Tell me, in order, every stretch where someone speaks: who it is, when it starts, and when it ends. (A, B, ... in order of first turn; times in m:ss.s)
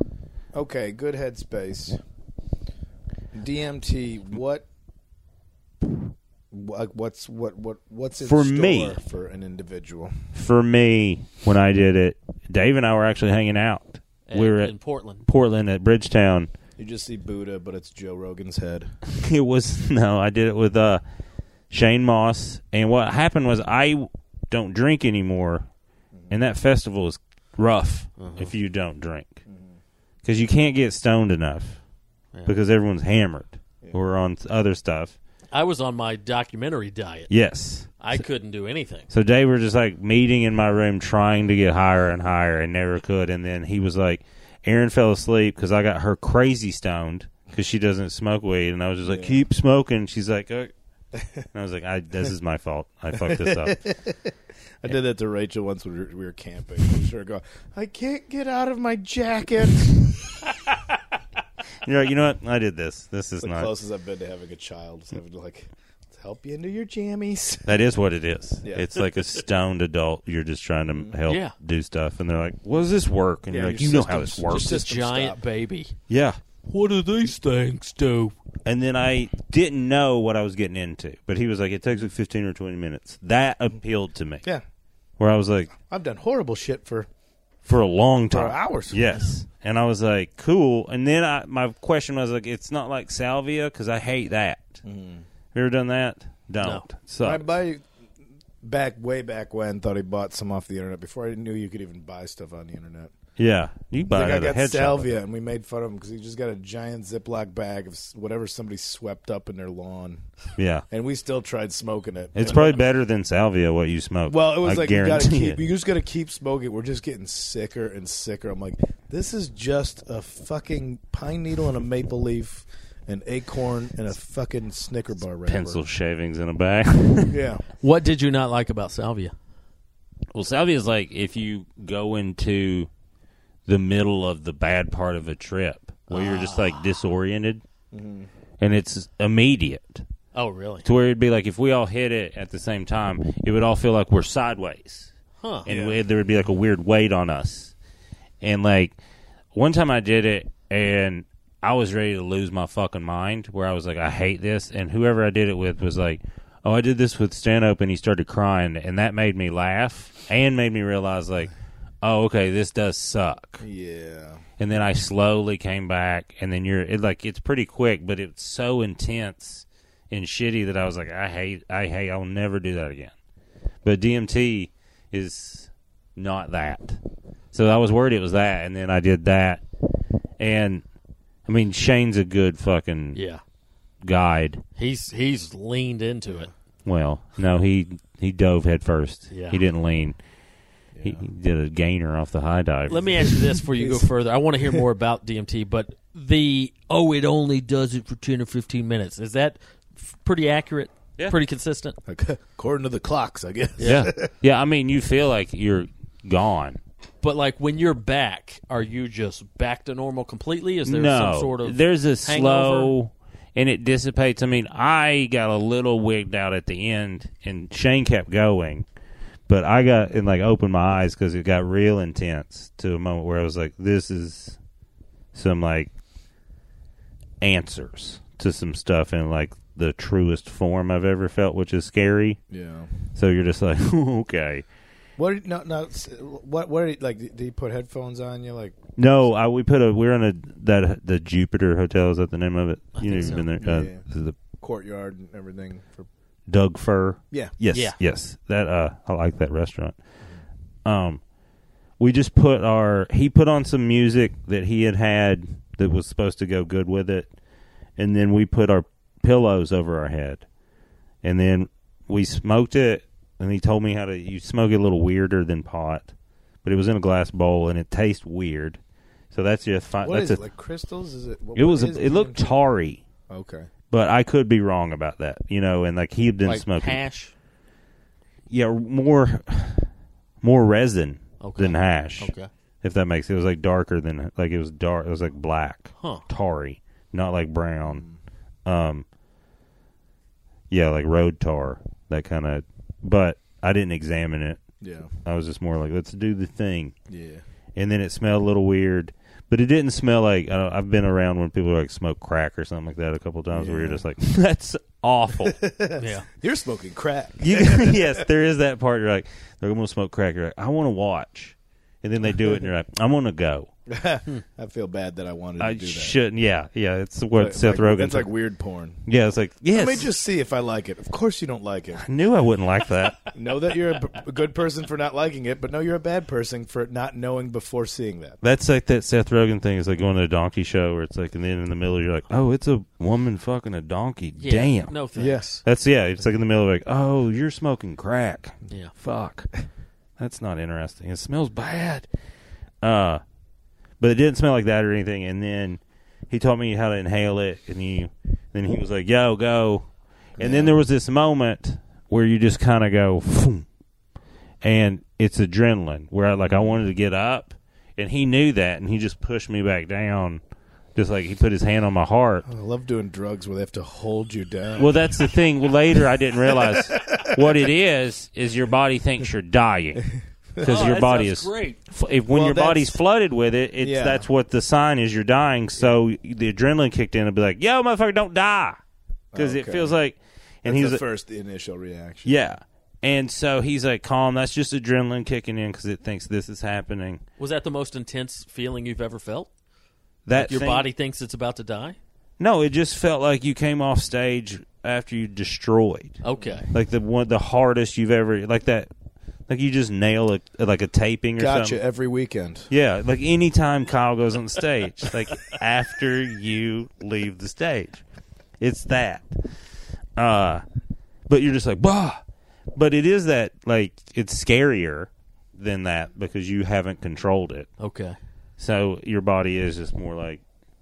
0:00.5-0:02.0 A
0:03.3-0:04.6 A
0:06.5-0:10.2 A
0:08.2-0:09.0 B
0:10.3-0:16.5 B
0:14.3-0:15.2 C
0:16.8-0:18.9 A
0:19.0-0:21.0 B
0:21.7-0:25.6 B
0:26.3-0:29.4 B
0:28.2-0:28.5 C
0:29.5-0:29.8 A
0:30.2-0:31.8 B
0:32.4-0:35.2 B
0:35.5-0:37.3 C
0:37.3-0:38.0 B
0:38.0-0:39.1 C
0:39.1-0:50.7 B
0:49.0-0:49.4 A
0:51.2-0:51.4 A
0:51.5-0:53.8 B
0:53.2-1:00.1 A
1:01.8-1:03.7 B
1:03.4-1:07.7 A
1:07.6-1:14.8 B
1:11.3-1:11.5 C
1:13.5-1:15.4 A
1:14.5-1:15.9 C
1:16.1-1:16.4 B
1:16.6-1:18.3 C
1:18.6-1:24.4 B
1:25.2-1:25.7 B
1:25.8-1:27.1 A
1:27.6-1:34.8 B
1:28.3-1:29.1 A
1:34.8-1:35.2 A
1:35.5-1:37.4 B
1:36.6-1:36.8 C
1:37.2-1:37.8 A
1:38.6-1:43.1 A
1:43.4-1:45.1 B
1:44.1-1:50.2 A
1:50.6-1:50.8 B
1:50.9-1:52.8 A
1:52.3-1:55.6 B
1:54.3-2:05.8 A
2:05.4-2:07.4 B
2:07.3-2:07.6 A
2:07.8-2:09.3 C
2:10.3-2:12.9 B
2:13.7-2:17.6 B
2:16.1-2:16.8 C
2:17.9-2:18.3 A
2:18.6-2:20.0 B
2:20.3-2:20.8 C
2:20.8-2:25.1 B
2:25.4-2:25.6 C
2:25.6-2:27.7 B
2:25.6-2:26.0 A
2:28.4-2:29.0 B
2:29.5-2:43.6 B
2:43.6-2:44.4 A
2:44.6-2:53.1 B
2:53.8-2:57.0 B
2:57.5-2:59.6 B
3:00.4-3:00.8 B
3:01.4-3:03.2 B
3:03.1-3:03.4 C
3:04.0-3:04.6 B
3:04.8-3:06.5 C
3:06.8-3:10.2 B
3:09.3-3:09.6 C
3:10.9-3:11.2 A
3:11.0-3:13.4 B
3:12.9-3:22.0 C
3:13.7-3:14.1 A
3:22.0-3:24.3 A
3:23.8-3:24.1 C
3:23.8-3:26.8 B
3:27.2-3:32.9 C
3:30.8-3:38.8 B
3:39.5-3:44.6 B
3:45.3-3:45.9 B
3:47.4-3:52.4 B
3:52.5-3:52.9 A
3:53.1-3:54.6 B
3:55.2-3:58.9 A
3:59.0-4:04.4 B
4:03.0-4:03.4 C
4:03.2-4:04.0 A
4:04.6-4:06.1 A
4:06.5-4:10.0 B
4:10.8-4:11.2 B
4:12.0-4:17.3 B
4:18.0-4:20.4 B
4:21.2-4:26.1 B
4:26.6-4:28.8 B
4:29.3-4:30.4 B
4:30.0-4:32.5 A
4:31.6-4:33.0 B
4:33.3-4:33.7 A
4:33.9-4:37.0 B
4:36.4-4:37.3 C
4:38.5-4:39.9 B
4:40.4-4:48.0 B
4:41.4-4:42.5 C
4:46.0-4:46.2 C
4:47.8-4:48.2 A
4:48.6-4:49.0 B
4:50.7-4:54.6 B
4:54.8-4:55.1 A
4:55.2-4:56.9 B
4:57.1-4:57.4 A
4:57.7-5:05.6 B
5:03.5-5:04.0 A
5:05.4-5:08.2 A
5:06.0-5:06.2 C
5:07.4-5:13.7 B
5:12.4-5:12.6 A
5:13.9-5:16.2 A
5:15.6-5:18.3 B
5:17.3-5:19.0 A
5:19.0-5:20.1 B
5:19.7-5:22.0 A
5:21.9-5:23.3 B
5:23.3-5:28.4 A
5:28.4-5:34.9 B
5:34.4-5:35.6 C
5:35.2-5:35.5 A
5:35.6-5:39.5 B
5:40.2-5:42.1 B
5:42.8-5:43.2 B
5:44.0-5:53.6 B
5:50.4-5:50.8 A
5:54.6-6:00.4 B
5:56.4-5:56.8 A
6:00.9-6:02.4 B
6:02.4-6:05.2 A
6:04.8-6:18.8 B
6:06.4-6:07.5 A
6:10.5-6:11.0 A
6:10.6-6:11.8 C
6:12.3-6:13.0 A
6:13.8-6:14.3 A
6:19.3-6:20.0 A
6:19.3-6:21.0 B
6:20.6-6:22.3 A
6:22.2-6:27.2 B
6:27.4-6:29.5 C
6:30.2-6:30.9 B
6:30.3-6:32.0 C
6:32.4-6:38.9 B
6:36.2-6:36.7 C
6:36.4-6:36.6 A
6:39.5-6:41.8 B
6:41.4-6:42.7 A
6:42.7-6:48.0 B
6:48.6-6:49.4 B
6:50.2-6:50.6 B
6:51.3-6:52.2 B
6:52.7-6:57.7 B
6:57.8-6:58.2 C
6:58.6-7:00.4 B